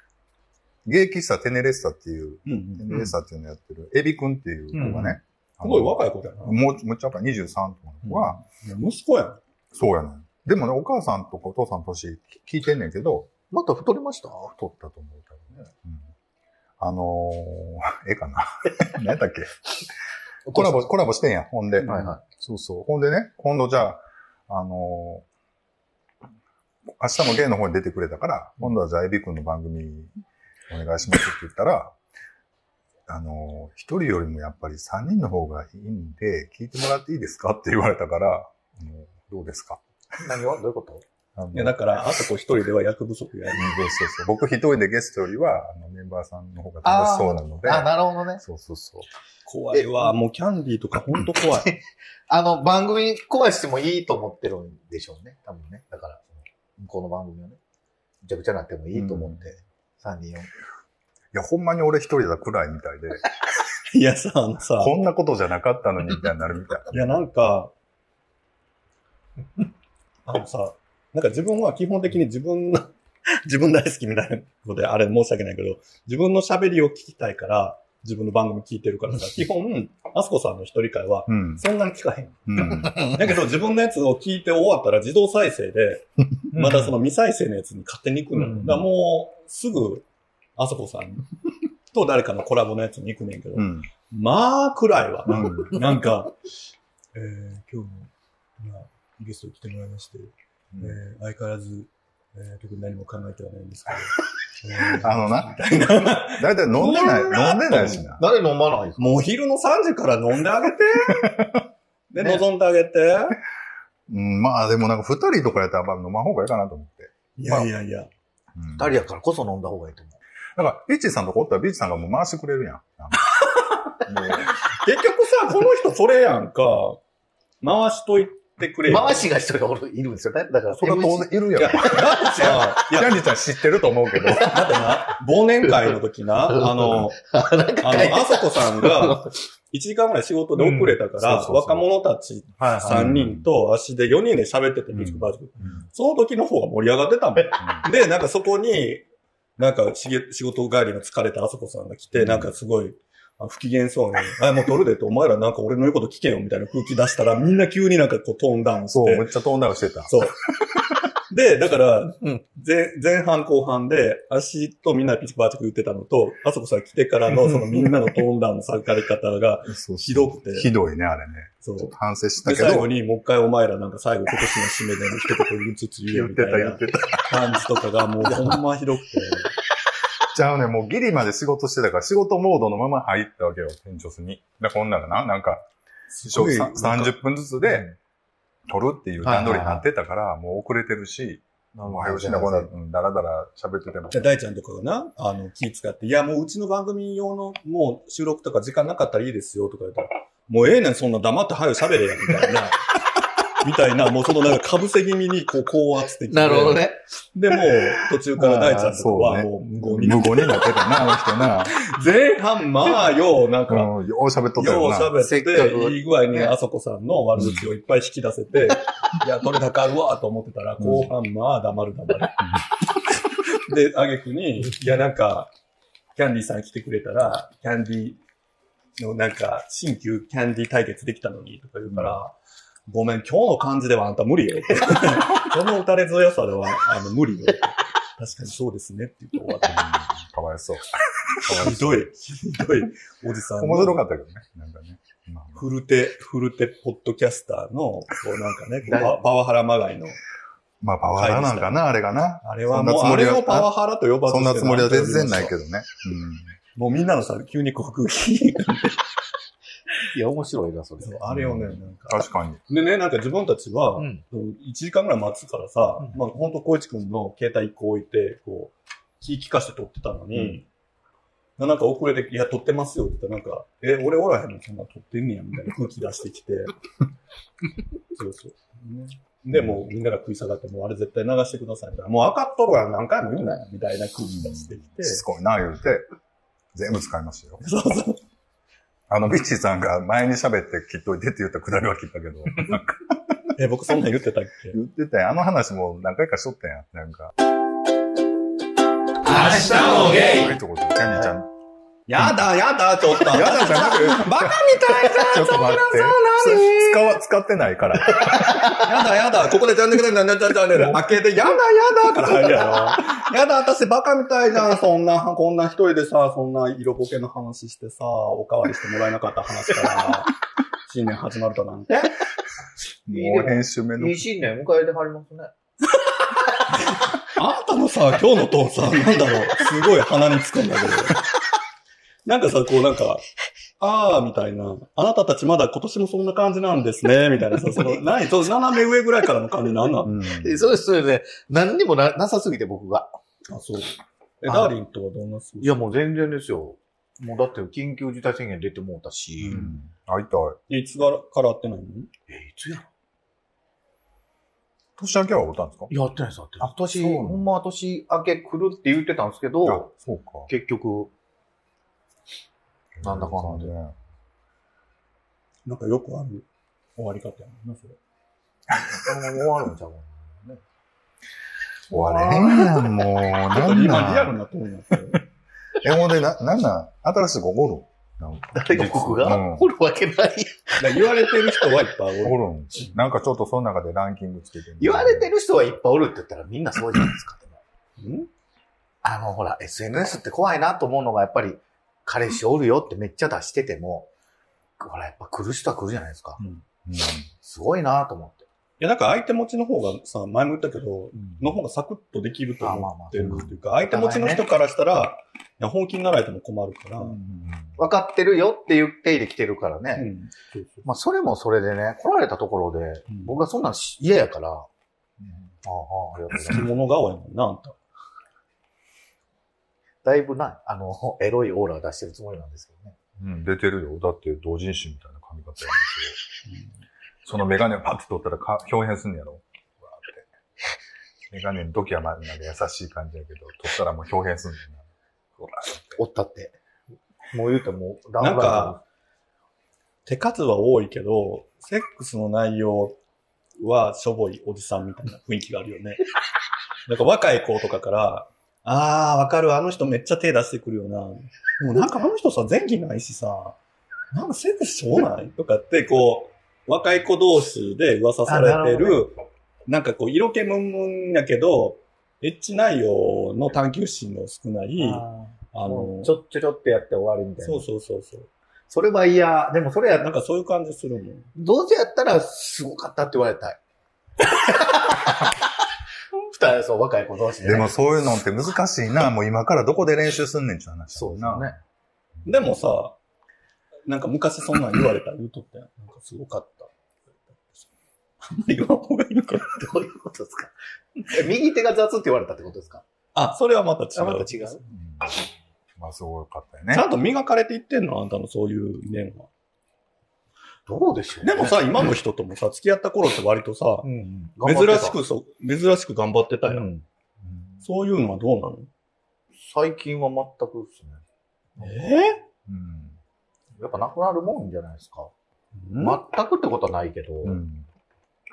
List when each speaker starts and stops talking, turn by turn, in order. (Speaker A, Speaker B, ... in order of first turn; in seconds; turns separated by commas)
Speaker A: 0.8-8.4, Speaker B: 2.5-3.1, Speaker B: 4.8-6.6, Speaker B: 8.0-9.4, Speaker A: 9.7-13.3, Speaker C: 13.5-14.5, Speaker A: 14.4-16.1, Speaker A: 16.8-19.6, Speaker A: 20.5-25.2, Speaker C: 20.5-20.7, Speaker C: 21.8-22.2, Speaker A: 27.0-30.1, Speaker A: 30.7-32.0, Speaker A: 33.1-39.8, Speaker C: 40.2-41.0, Speaker A: 41.4-41.8, Speaker B: 41.5-43.7, Speaker A: 43.5-47.9, Speaker C: 46.8-49.0, Speaker A: 48.4-49.0, Speaker B: 49.5-51.7, Speaker C: 49.7-50.1, Speaker C: 51.6-57.6, Speaker C: 58.2-60.5, Speaker A: 58.9-59.4, Speaker A: 61.3-63.2, Speaker B: 63.9-65.0, Speaker A: 64.8-66.9, Speaker B: 66.9-67.7, Speaker B: 70.2-90.1, Speaker A: 81.3-81.6, Speaker A: 82.5-83.3, Speaker A: 86.3-87.0, Speaker B: 90.6-91.3, Speaker B: 91.9-96.3, Speaker A: 93.6-93.9, Speaker A: 95.3-95.8, Speaker B: 97.1-108.2, Speaker A: 100.7-101.0, Speaker A: 104.9-108.2, Speaker C: 108.2-109.2, Speaker B: 109.0-111.5, Speaker A: 111.1-111.6, Speaker B: 112.1-113.4, Speaker A: 114.1-117.7, Speaker B: 117.4-118.1, Speaker A: 118.6-118.9, Speaker C: 118.8-120.2, Speaker A: 120.6-123.3, Speaker B: 123.4-127.0, Speaker A: 124.0-124.5, Speaker B: 127.6-129.3, Speaker C: 128.9-132.6, Speaker A: 130.7-134.7, Speaker B: 130.8-133.2, Speaker C: 134.3-134.6, Speaker B: 134.4-137.2, Speaker C: 135.6-139.3, Speaker B: 137.8-149.1, Speaker A: 141.2-141.9, Speaker C: 142.6-143.1, Speaker A: 142.8-143.4, Speaker A: 144.9-145.8, Speaker A: 147.6-147.9, Speaker B: 149.6-159.3, Speaker A: 152.1-152.5, Speaker A: 158.9-160.1, Speaker B: 160.1-160.4, Speaker B: 161.2-170.7, Speaker A: 169.7-172.9, Speaker B: 171.6-179.5, Speaker A: 176.1-177.6, Speaker A: 180.2-185.7, Speaker B: 186.1-187.2, Speaker A: 186.2-188.0, Speaker A: 188.7-194.3, Speaker C: 189.2-189.8, Speaker C: 191.7-192.7, Speaker B: 194.1-202.9, Speaker B: 203.5-210.9, Speaker C: 206.3-207.0, Speaker A: 208.4-211.8, Speaker C: 208.6-208.9, Speaker B: 211.6-213.9, Speaker A: 213.7-215.2, Speaker B: 214.6-222.6, Speaker C: 215.2-216.5, Speaker A: 217.4-217.7, Speaker A: 220.8-221.1, Speaker B: 223.3-225.5, Speaker B: 226.2-228.2, Speaker B: 229.0-232.3, Speaker A: 231.9-232.2, Speaker B: 232.9-239.8, Speaker A: 239.6-242.1, Speaker B: 241.5-244.0, Speaker A: 243.6-245.7, Speaker B: 245.6-250.2, Speaker C: 248.9-249.2, Speaker A: 250.8-253.7, Speaker B: 251.2-251.8, Speaker B: 252.4-255.5, Speaker A: 254.3-256.5, Speaker B: 256.8-259.1, Speaker C: 260.1-261.2, Speaker B: 261.0-270.7, Speaker A: 261.3-262.6, Speaker C: 264.0-264.2, Speaker A: 270.3-270.6, Speaker B: 271.6-276.7, Speaker B: 278.1-285.2, Speaker A: 279.5-279.8, Speaker A: 284.4-286.1, Speaker A: 286.7-287.6, Speaker B: 287.6-288.2, Speaker A: 289.1-293.4, Speaker B: 293.6-294.8, Speaker A: 294.7-297.3, Speaker A: 299.5-301.5, Speaker B: 302.1-307.1, Speaker A: 303.1-308.7, Speaker C: 308.2-308.7, Speaker B: 308.4-320.3, Speaker B: 320.9-322.1, Speaker A: 323.1-324.3, Speaker C: 323.1-325.5, Speaker B: 326.7-331.2, Speaker B: 332.3-333.2, Speaker B: 333.8-340.1, Speaker A: 340.1-340.7, Speaker C: 340.1-343.1, Speaker B: 343.5-345.9, Speaker C: 344.5-344.7, Speaker C: 345.6-349.7, Speaker A: 349.4-350.6, Speaker B: 350.7-352.1, Speaker C: 352.3-352.9, Speaker A: 355.0-355.9, Speaker C: 355.9-359.9, Speaker A: 356.6-357.4, Speaker A: 359.6-360.5, Speaker C: 360.5-361.1, Speaker A: 363.0-363.9, Speaker C: 363.0-363.7, Speaker B: 365.7-368.0, Speaker A: 368.8-369.4, Speaker C: 368.9-370.6, Speaker A: 371.9-374.3, Speaker C: 371.9-372.8, Speaker B: 373.5-375.2, Speaker A: 375.8-379.7, Speaker C: 378.5-381.7, Speaker B: 380.8-382.8, Speaker A: 382.2-385.3, Speaker C: 384.8-387.6, Speaker B: 388.0-388.3, Speaker C: 389.0-394.1, Speaker C: 394.8-396.4, Speaker A: 396.9-397.3, Speaker C: 397.4-398.5, Speaker B: 398.8-407.2, Speaker C: 402.6-404.5, Speaker A: 403.2-403.5, Speaker A: 407.1-407.8, Speaker C: 407.8-410.1, Speaker B: 409.9-410.9, Speaker C: 410.9-414.7, Speaker B: 413.1-413.4, Speaker A: 415.2-415.5, Speaker C: 415.6-416.7, Speaker B: 416.4-417.8, Speaker C: 420.0-423.0, Speaker A: 423.2-426.2, Speaker A: 427.2-430.3, Speaker A: 431.3-434.8, Speaker A: 435.4-436.0, Speaker C: 436.0-436.6, Speaker C: 437.3-438.8, Speaker B: 438.2-438.8, Speaker B: 440.1-443.0, Speaker B: 443.6-446.0, Speaker B: 446.9-453.6, Speaker B: 454.1-466.1, Speaker C: 458.3-459.1, Speaker C: 464.8-467.7, Speaker B: 467.4-468.3, Speaker C: 468.7-470.1, Speaker B: 470.0-471.3, Speaker C: 471.4-473.6, Speaker C: 474.2-475.4, Speaker C: 476.2-477.8, Speaker A: 477.4-481.6, Speaker C: 480.9-481.6, Speaker B: 482.2-483.0, Speaker B: 483.9-487.7, Speaker B: 488.2-489.7, Speaker C: 489.5-492.9, Speaker B: 493.1-494.6, Speaker C: 494.0-494.6, Speaker A: 494.7-496.9, Speaker B: 496.7-499.3, Speaker C: 500.7-501.6, Speaker B: 501.2-503.9, Speaker C: 503.8-505.0, Speaker B: 504.4-506.7, Speaker C: 506.5-506.8, Speaker B: 507.6-508.7, Speaker C: 509.4-511.0, Speaker B: 511.6-512.2, Speaker A: 512.5-513.0, Speaker C: 513.6-515.1, Speaker B: 515.5-516.0, Speaker C: 515.8-517.4, Speaker A: 517.2-517.7